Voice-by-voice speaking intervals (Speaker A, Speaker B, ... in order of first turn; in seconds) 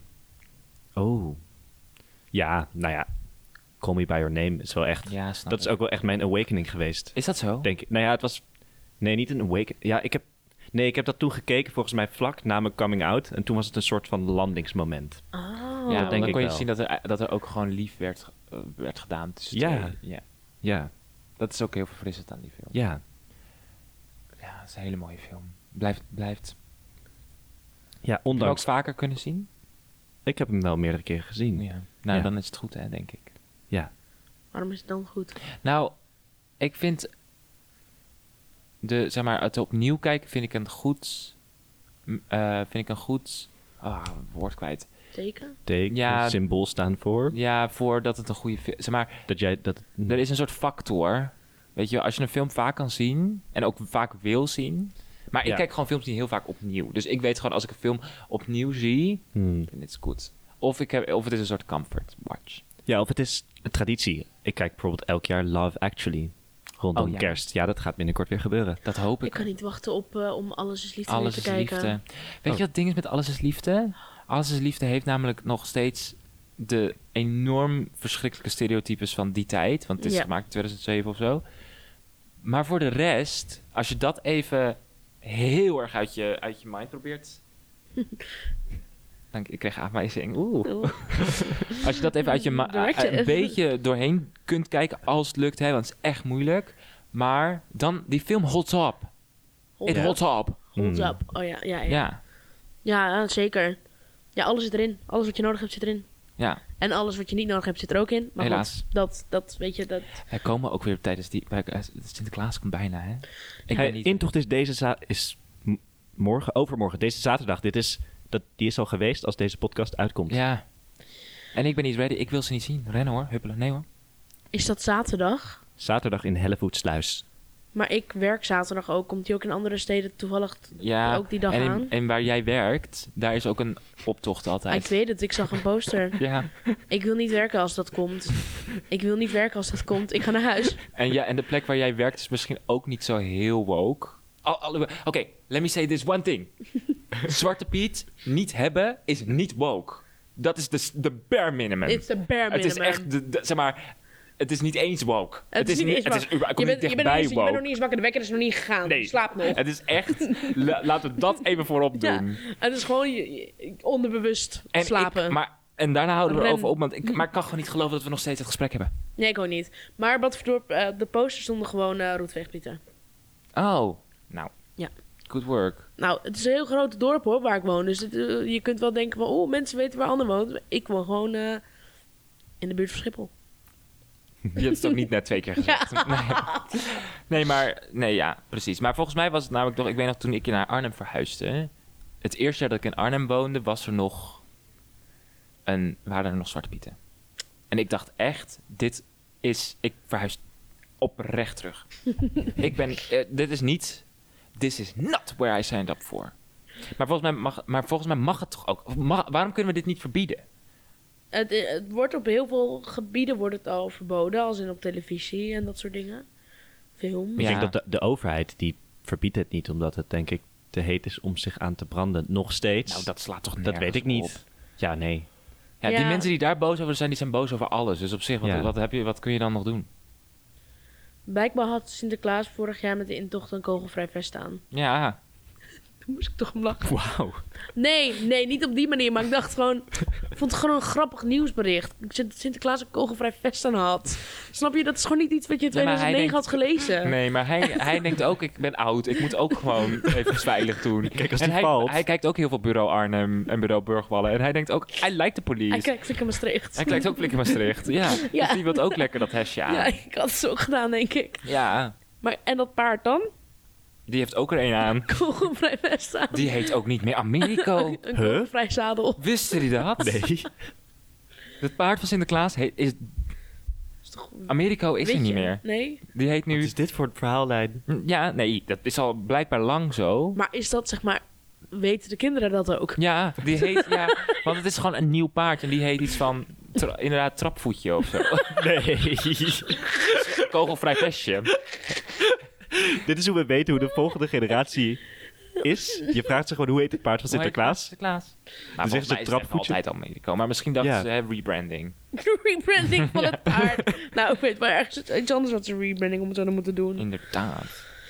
Speaker A: 0.9-1.4, 2.3-3.1, 3.8-8.4, 9.0-15.2, 15.9-16.6, 19.5-20.0, 20.6-20.9, 22.7-23.0, 28.0-28.6, 30.2-32.3, 45.6-47.4, 49.3-50.2, 59.3-59.7, 62.9-68.8, 100.8-101.2, 113.7-120.4, 125.8-127.2, 217.4-225.3, 228.4-228.7, 236.8-237.4, 251.1-252.0, 268.1-268.5, 270.0-270.5, 276.5-277.8, 288.6-290.1, 292.2-297.9, 298.8-299.8, 300.8-301.1
Speaker B: 5.1-5.8, 7.1-7.7, 15.9-20.2, 21.4-22.8, 24.4-26.5, 28.4-29.5, 31.6-33.3, 35.6-35.9, 36.6-37.1, 38.8-41.3, 42.1-44.9, 45.9-46.4, 47.3-49.3, 50.1-62.6, 67.0-67.4, 68.8-69.5, 71.1-81.4, 82.4-87.4, 89.3-99.1, 99.8-100.6, 101.9-102.2, 108.4-108.8, 110.2-114.2, 120.3-120.6, 121.5-123.8, 130.8-135.0, 136.1-136.7, 140.9-157.6, 158.8-162.4, 164.7-168.9, 173.5-174.5, 175.3-175.9, 184.5-191.7, 192.2-194.4, 195.7-196.9, 197.7-200.4, 201.0-204.0, 204.6-206.3, 206.9-210.4, 217.3-217.8, 222.8-224.4, 225.8-229.9, 234.7-235.2, 245.7-255.9, 256.7-259.9, 261.4-261.9, 264.1-265.1, 266.3-268.0, 269.2-270.2, 271.6-273.1, 274.5-276.7, 277.9-280.4, 283.0-288.7, 290.1-291.6, 297.3-302.0, 303.1-303.6, 307.0-307.8
Speaker C: 15.3-16.4, 34.5-35.4, 45.1-45.6, 69.2-72.0, 80.0-80.3, 90.7-91.8, 92.4-93.5, 99.8-102.1, 102.8-103.8, 104.3-106.1, 106.8-110.2, 124.5-125.6, 127.7-131.9, 134.7-136.2, 136.9-140.8, 151.8-153.1, 155.5-159.6, 160.2-160.5, 162.0-165.4, 166.3-167.2, 169.2-172.8, 176.0-181.6, 182.6-183.3, 184.6-184.9, 185.6-186.7, 211.3-216.2, 217.0-217.5, 225.8-226.3, 231.2-234.6, 236.0-236.9, 237.7-247.2, 255.7-259.1, 259.7-261.5, 262.2-263.3, 265.1-266.7, 267.4-269.6, 274.1-276.0, 280.3-283.0, 283.6-284.4, 302.1-307.1